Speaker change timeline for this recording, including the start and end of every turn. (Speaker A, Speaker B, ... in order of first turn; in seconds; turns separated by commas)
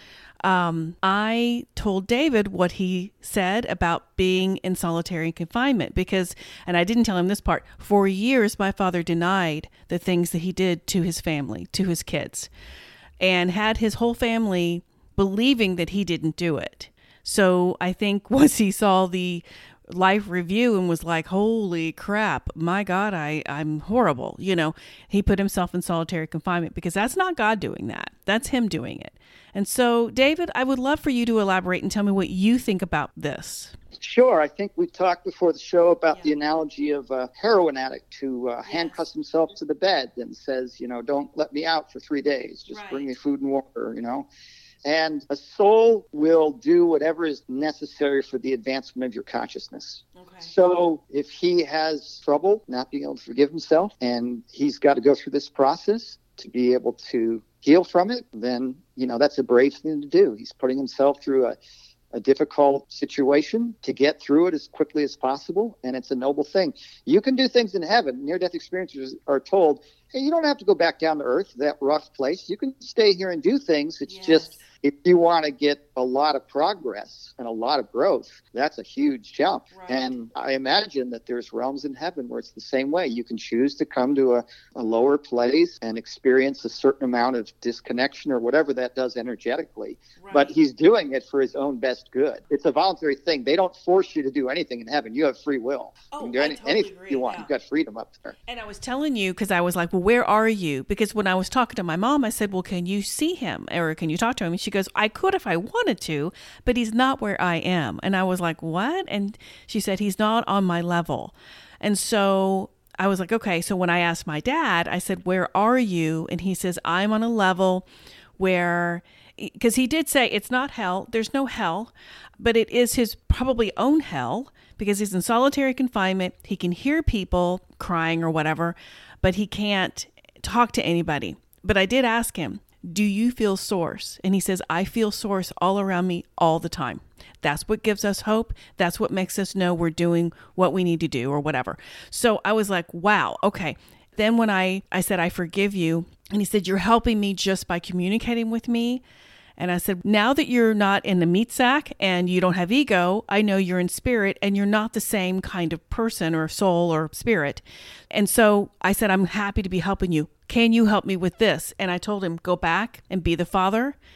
Speaker A: 0.4-12.5, Speaker A: 13.2-33.7, Speaker B: 34.0-44.3, Speaker A: 38.6-39.0, Speaker A: 42.7-43.1, Speaker B: 44.8-61.5, Speaker A: 50.1-50.5, Speaker B: 62.1-98.3, Speaker A: 74.1-74.6, Speaker A: 79.7-80.1, Speaker A: 90.2-90.5, Speaker A: 96.1-97.5, Speaker A: 98.5-117.9, Speaker A: 118.4-149.0, Speaker A: 149.6-164.0